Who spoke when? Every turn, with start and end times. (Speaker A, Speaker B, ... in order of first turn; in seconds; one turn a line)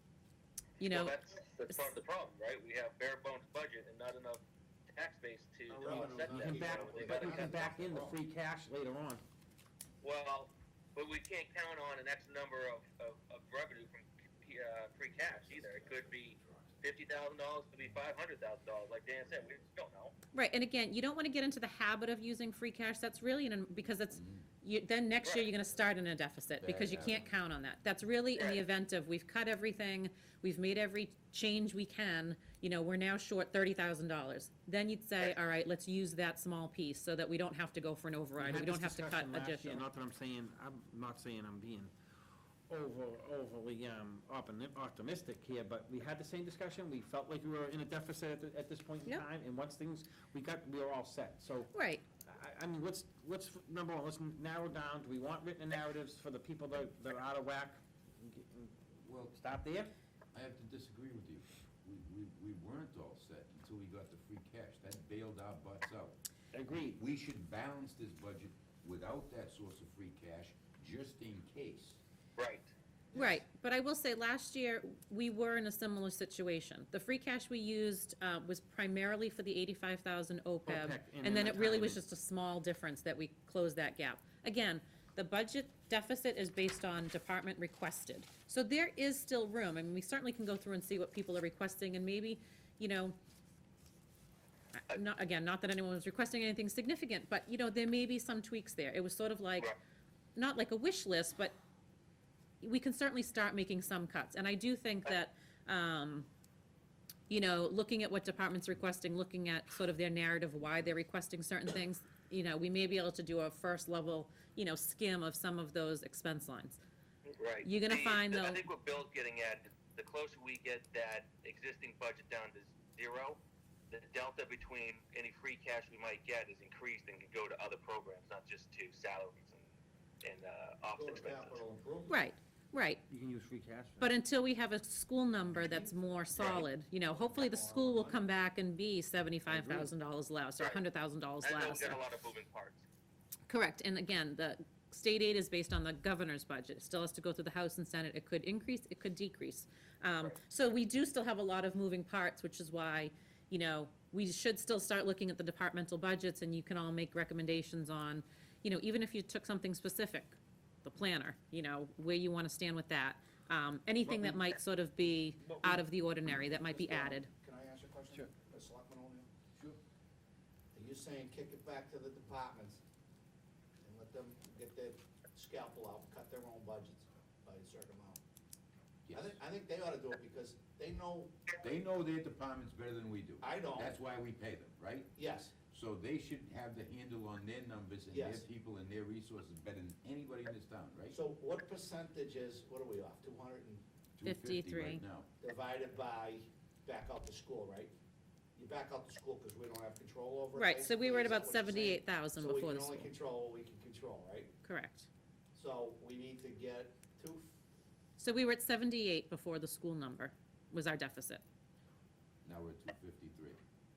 Speaker A: 0.8-1.2
Speaker B: 0.8-7.9
Speaker C: 5.7-8.2
Speaker D: 5.8-9.2
Speaker B: 10.0-20.1
Speaker A: 20.3-39.9
Speaker E: 24.1-24.4
Speaker B: 25.2-25.5
Speaker E: 26.6-27.3
Speaker B: 28.4-28.6
Speaker D: 38.4-41.9
Speaker D: 42.7-59.9
Speaker A: 51.7-52.0
Speaker E: 59.0-59.4
Speaker E: 60.3-66.2
Speaker D: 66.5-67.0
Speaker E: 66.7-72.0
Speaker B: 72.4-72.7
Speaker C: 73.1-73.4
Speaker A: 73.1-93.2
Speaker D: 80.7-82.0
Speaker A: 94.9-99.8
Speaker A: 100.3-101.5
Speaker A: 102.6-106.3
Speaker A: 107.3-116.8
Speaker B: 117.3-129.7
Speaker A: 117.6-118.6
Speaker B: 130.2-131.6
Speaker C: 130.9-132.2
Speaker A: 132.1-133.0
Speaker D: 133.1-134.2
Speaker A: 134.0-142.0
Speaker C: 135.6-138.3
Speaker D: 139.5-139.9
Speaker B: 141.4-142.8
Speaker A: 143.5-167.3
Speaker D: 164.1-164.5
Speaker D: 165.4-165.8
Speaker C: 166.5-169.3
Speaker C: 170.7-172.8
Speaker C: 173.8-178.2
Speaker E: 179.1-179.4
Speaker C: 179.1-181.4
Speaker E: 181.6-185.2
Speaker C: 183.4-184.0
Speaker C: 185.2-185.6
Speaker E: 185.7-191.2
Speaker C: 188.1-188.5
Speaker C: 191.1-193.8
Speaker E: 194.2-195.3
Speaker A: 194.2-195.0
Speaker C: 195.4-197.9
Speaker C: 198.6-204.5
Speaker A: 200.6-203.1
Speaker A: 204.6-205.1
Speaker C: 205.5-207.6
Speaker A: 208.2-211.4
Speaker E: 212.4-213.6